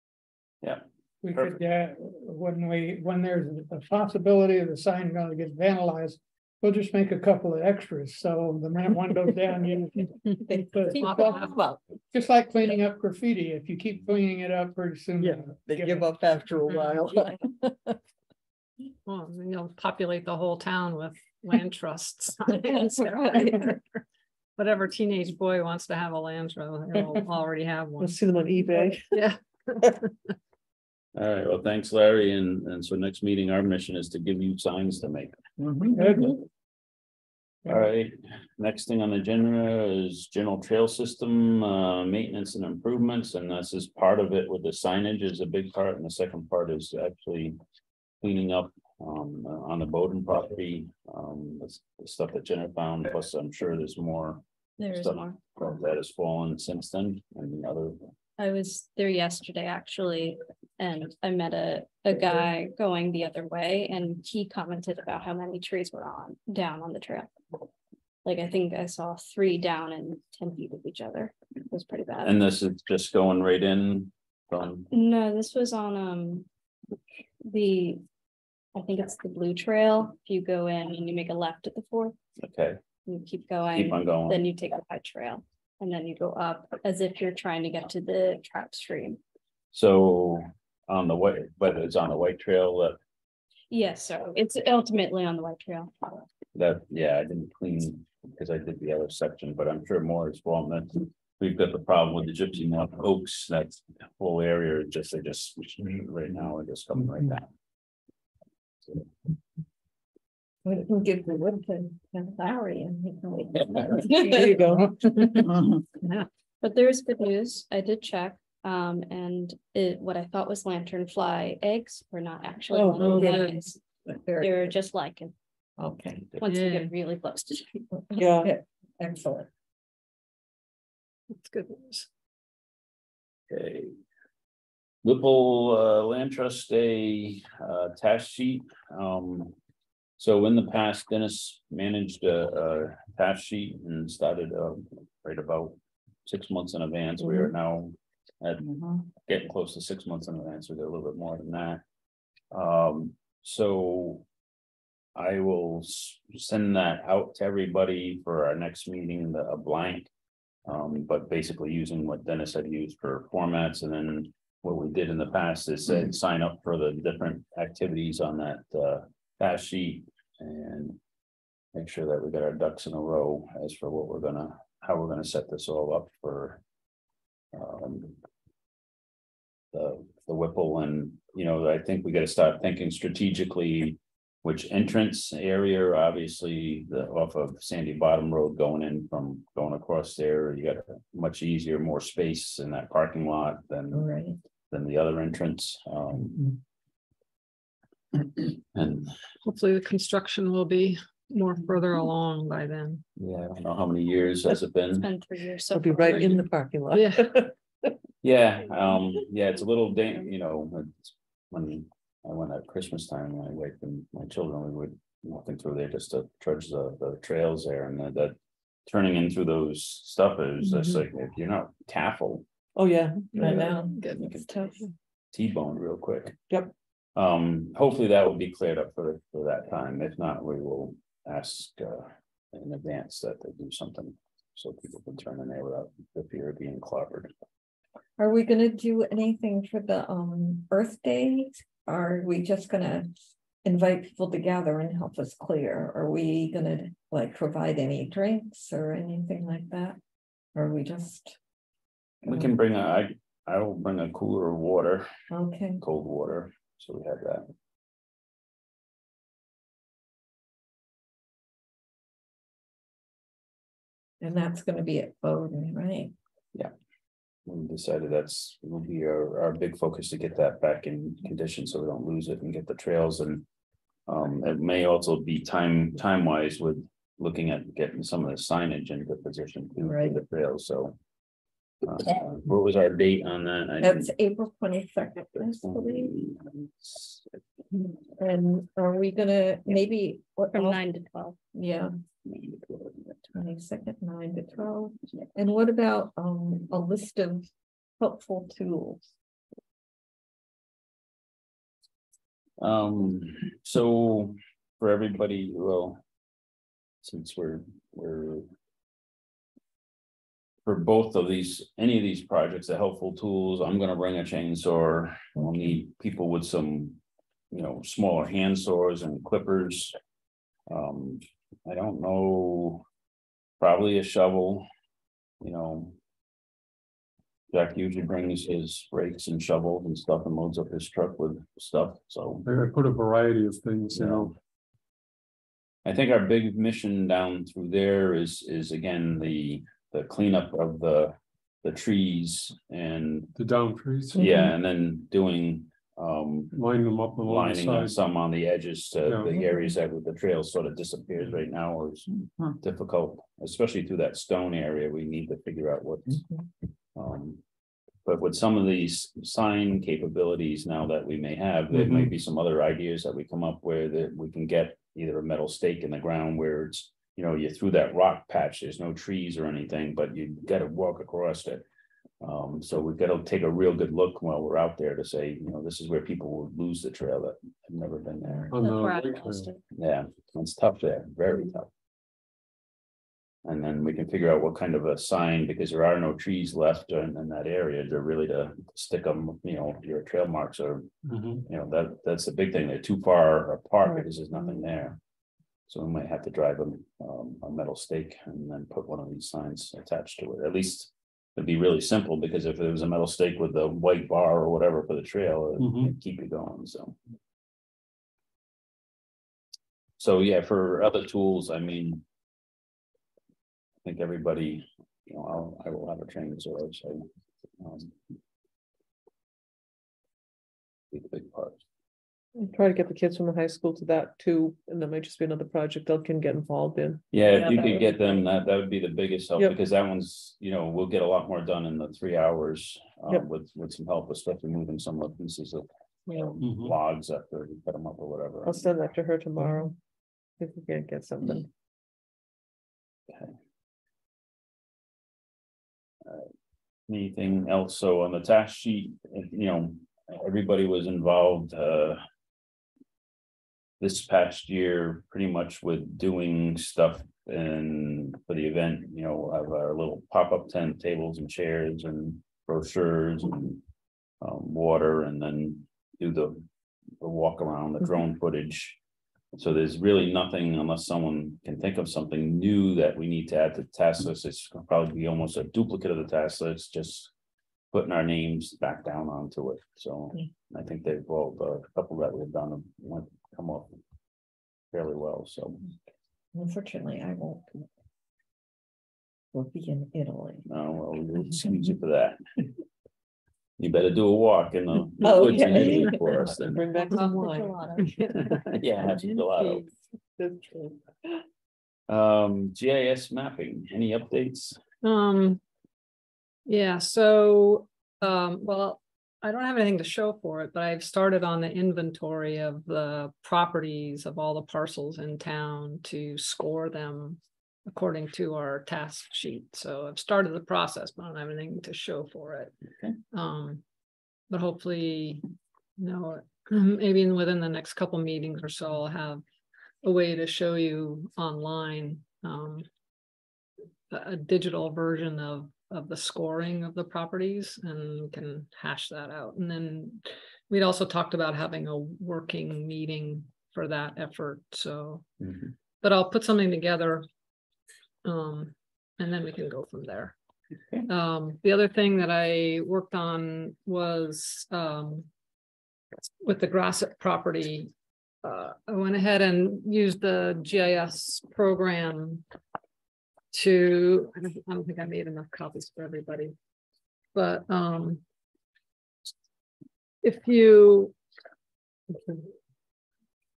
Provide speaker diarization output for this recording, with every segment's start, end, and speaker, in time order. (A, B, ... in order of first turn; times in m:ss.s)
0:00.6-0:01.6 A
0:01.2-0:11.5 B
0:10.2-0:11.6 C
0:10.8-0:11.6 D
0:12.1-0:16.7 B
0:15.1-0:18.0 D
0:19.0-0:23.8 C
0:22.5-0:23.8 E
0:24.6-0:28.2 C
0:28.0-0:29.2 F
0:29.1-0:30.0 C
0:31.1-0:35.3 A
0:35.6-0:36.1 D
0:36.0-0:36.3 B
0:37.6-0:47.6 A
0:48.2-0:58.0 A
0:54.8-0:55.4 G
0:58.4-1:07.3 G
1:08.2-1:12.4 G
1:12.2-1:14.9 A
1:14.9-1:16.5 G
1:17.4-1:18.0 G
1:18.7-1:22.1 G
1:22.4-1:22.8 A
1:23.0-1:29.2 G
1:23.7-1:24.4 A
1:29.7-1:33.0 A
1:33.7-1:35.9 G
1:36.5-1:47.5 A
1:50.6-1:54.8 E
1:54.0-1:55.4 F
1:54.8-1:55.4 B
1:55.5-1:55.8 D
1:56.6-2:03.8 G
2:02.7-2:03.6 F
2:03.0-2:03.5 E
2:04.2-2:04.8 E
2:04.4-2:05.3 G
2:05.8-2:06.3 E
2:06.4-2:07.7 G
2:06.4-2:06.9 C
2:07.7-2:09.5 E
2:08.2-2:08.5 F
2:11.3-2:12.1 C
2:13.5-2:13.9 A
2:15.0-2:19.5 A
2:20.2-2:28.6 A
2:28.6-2:29.0 D
2:29.2-2:31.8 A
2:32.5-2:34.2 A
2:35.1-2:40.1 A
2:40.6-2:51.0 A
2:51.7-2:56.6 A
2:57.5-2:58.1 A
2:59.7-3:14.1 A
3:13.9-3:14.4 E
3:14.7-3:16.6 A
3:18.7-3:19.1 A
3:19.4-3:23.0 C
3:23.2-3:25.1 A
3:24.9-3:26.4 G
3:25.7-3:27.5 F
3:26.9-3:27.3 C
3:28.2-3:42.4 A
3:42.8-3:43.8 F
3:43.3-3:43.6 A
3:43.4-3:44.7 E
3:44.0-3:44.2 C
3:44.2-3:44.4 A
3:45.3-3:46.4 A
3:47.2-3:57.3 A
3:58.2-4:03.1 E
4:03.6-4:10.0 E
4:10.5-4:11.4 E
4:12.2-4:15.1 A
4:12.3-4:12.5 E
4:15.3-4:15.8 E
4:15.8-4:17.5 A
4:24.2-4:26.1 E
4:27.4-4:33.4 A
4:34.1-4:41.0 A
4:39.8-4:40.2 E
4:41.8-4:44.1 A
4:43.8-4:46.2 E
4:45.4-4:47.2 A
4:47.7-4:50.8 E
4:50.5-4:51.4 G
4:51.5-4:51.9 E
4:52.3-4:52.9 A
4:53.3-4:57.5 E
4:58.0-4:59.0 E
5:02.6-5:06.0 A
5:07.0-5:08.5 A
5:10.6-5:17.0 A
5:17.5-5:20.0 A
5:20.7-5:22.8 A
5:23.6-5:24.7 A
5:25.4-5:25.9 A
5:27.5-5:32.4 A
5:32.4-5:34.3 H
5:33.9-5:34.3 A
5:35.8-5:43.3 A
5:43.3-5:44.2 H
5:44.1-5:44.5 E
5:44.1-5:46.6 A
5:46.5-5:48.0 H
5:47.2-5:56.2 A
5:49.0-5:49.4 H
5:49.4-5:49.7 E
5:56.9-5:57.4 A
5:58.0-6:11.6 A
6:01.7-6:02.2 H
6:12.2-6:18.5 A
6:18.5-6:19.5 H
6:18.5-6:19.6 G
6:19.7-6:21.7 A
6:23.4-6:30.9 A
6:31.0-6:31.4 H
6:31.4-6:35.0 A
6:35.7-6:47.0 A
6:45.6-6:45.9 H
6:50.0-6:52.0 A
6:53.8-6:57.0 A
6:57.6-6:57.9 A
7:00.9-7:01.6 A
7:02.3-7:07.5 F
7:07.1-7:15.6 A
7:07.2-7:08.0 E
7:16.1-7:16.4 E
7:16.3-7:18.6 A
7:16.4-7:16.8 H
7:18.4-7:19.8 F
7:20.4-7:21.5 F
7:26.9-7:32.0 A
7:33.8-7:43.6 A
7:44.2-7:46.4 A
7:47.0-7:48.8 A
7:49.3-7:57.1 A
7:57.7-8:03.8 A
8:04.7-8:05.6 A
8:06.3-8:07.6 E
8:09.3-8:10.4 E
8:10.4-8:12.2 A
8:13.6-8:16.6 A
8:15.0-8:18.0 E
8:15.3-8:17.5 F
8:16.9-8:18.3 C
8:18.5-8:19.6 A
8:20.2-8:20.7 F
8:21.9-8:24.6 A
8:24.8-8:25.4 C
8:26.4-8:42.5 C
8:43.1-8:43.6 C
8:44.3-8:45.2 C
8:45.8-8:49.2 C
8:49.8-8:52.6 C
8:53.9-9:05.0 C
9:05.2-9:05.5 A
9:05.8-9:07.0 C
9:08.0-9:10.1 C
9:10.9-9:15.1 C
9:16.2-9:17.7 C
9:18.2-9:22.2 C
9:23.3-9:26.3 C
9:27.1-9:28.0 C
9:30.0-9:30.9 C